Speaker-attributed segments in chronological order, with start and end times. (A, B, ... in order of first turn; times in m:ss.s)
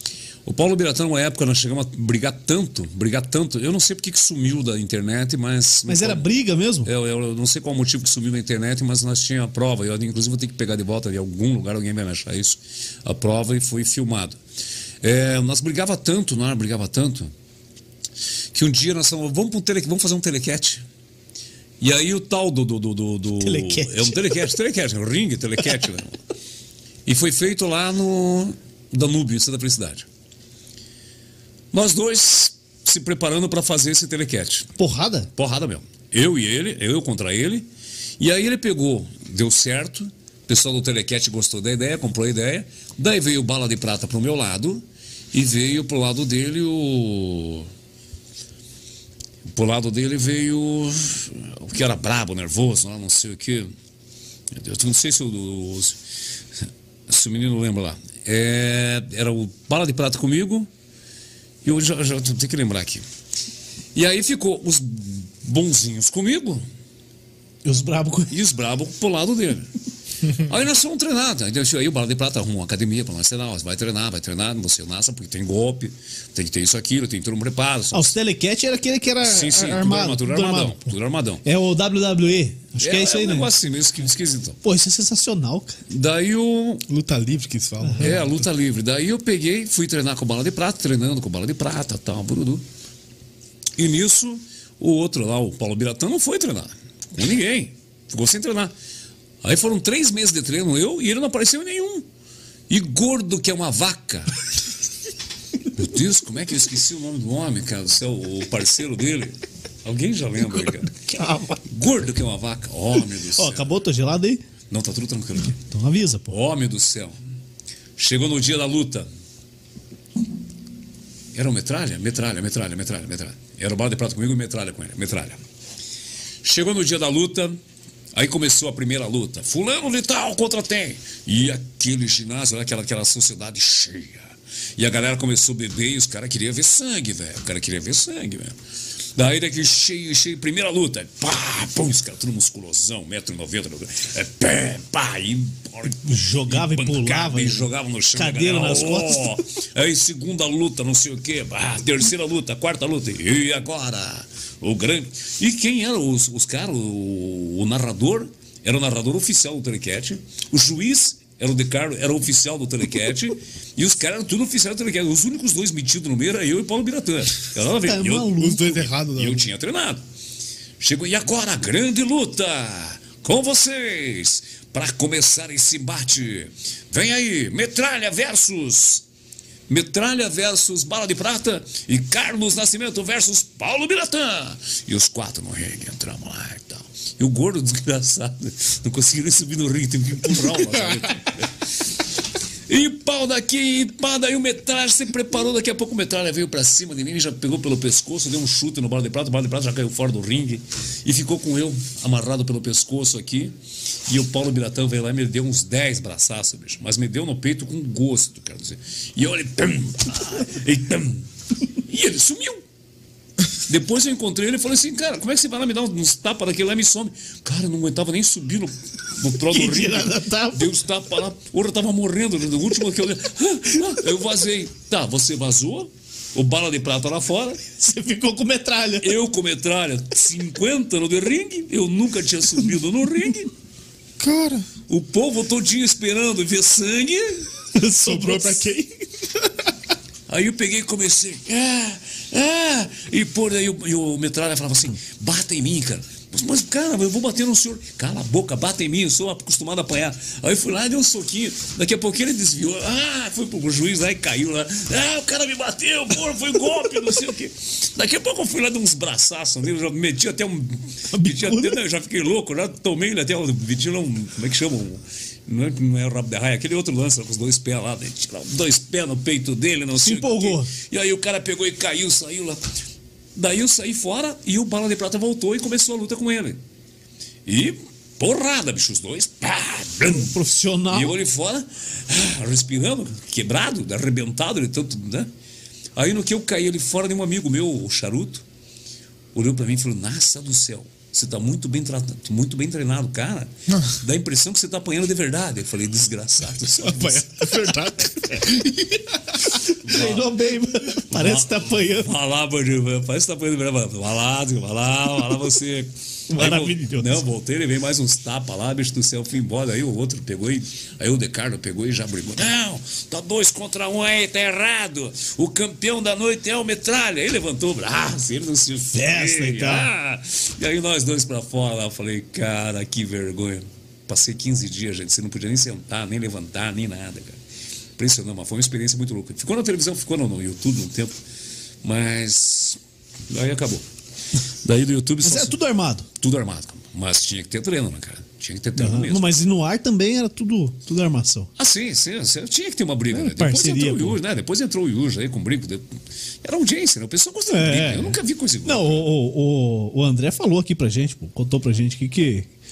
0:00.4-0:06.3 A
0:05.9-0:06.9 B
0:06.8-0:14.4 A
0:15.0-0:17.3 A
0:18.5-0:20.8 A
0:21.8-0:26.2 A
0:23.4-0:24.4 B
0:27.0-0:30.0 A
0:31.7-0:34.7 A
0:34.8-0:35.3 B
0:35.4-0:37.7 A
0:38.2-0:47.7 A
0:49.5-0:53.7 A
0:54.5-0:56.0 A
0:57.1-1:00.7 A
1:01.6-1:03.0 A
1:03.9-1:06.6 A
1:07.6-1:08.3 B
1:08.3-1:09.7 A
1:10.2-1:18.1 A
1:17.9-1:20.8 B
1:19.2-1:21.4 A
1:21.4-1:23.5 B
1:22.8-1:24.6 A
1:24.6-1:25.8 B
1:25.9-1:26.8 A
1:26.9-1:28.4 C
1:27.8-1:28.1 B
1:28.0-1:32.6 A
1:33.8-1:38.7 A
1:39.4-1:42.0 A
1:42.7-1:44.4 A
1:45.7-1:53.6 A
1:51.1-1:51.6 B
1:53.4-1:54.4 B
1:54.7-1:55.6 A
1:55.6-1:56.3 B
1:56.3-1:57.2 A
1:58.0-1:59.1 A
2:01.3-2:05.4 A
2:06.4-2:07.6 A
2:08.1-2:18.6 A
2:19.2-2:48.3 A
2:26.0-2:29.4 B
2:47.8-2:48.9 B
2:48.4-2:49.5 C
2:49.0-2:50.0 A
2:50.8-2:59.0 A
2:59.7-3:11.7 A
3:12.7-3:23.5 A
3:24.1-3:32.6 A
3:33.7-3:47.6 A
3:39.5-3:40.7 B
3:47.8-3:49.2 B
3:49.0-3:53.5 A
3:54.2-3:54.7 C
3:54.9-3:57.5 A
3:57.7-3:58.6 B
3:58.0-3:59.7 C
4:00.3-4:32.7 A
4:21.1-4:21.8 B
4:30.0-4:30.7 B
4:33.3-4:36.6 A
4:37.4-4:40.4 A
4:40.2-4:41.2 B
4:40.9-4:45.3 A
4:46.0-4:48.4 A
4:49.3-4:57.7 A
4:53.7-4:54.0 C
4:56.8-4:59.4 C
4:59.5-5:02.1 B
4:59.8-5:00.3 A
5:01.1-5:27.4 A
5:06.3-5:07.2 B
5:18.9-5:19.9 B
5:28.0-5:31.2 A
5:31.8-5:32.8 A
5:33.3-5:33.8 A
5:34.6-5:35.6 A
5:35.2-5:36.1 B
5:36.2-5:39.4 A
5:38.8-5:41.5 B
5:41.6-5:49.1 A
5:43.1-5:44.2 B
5:47.5-5:52.5 B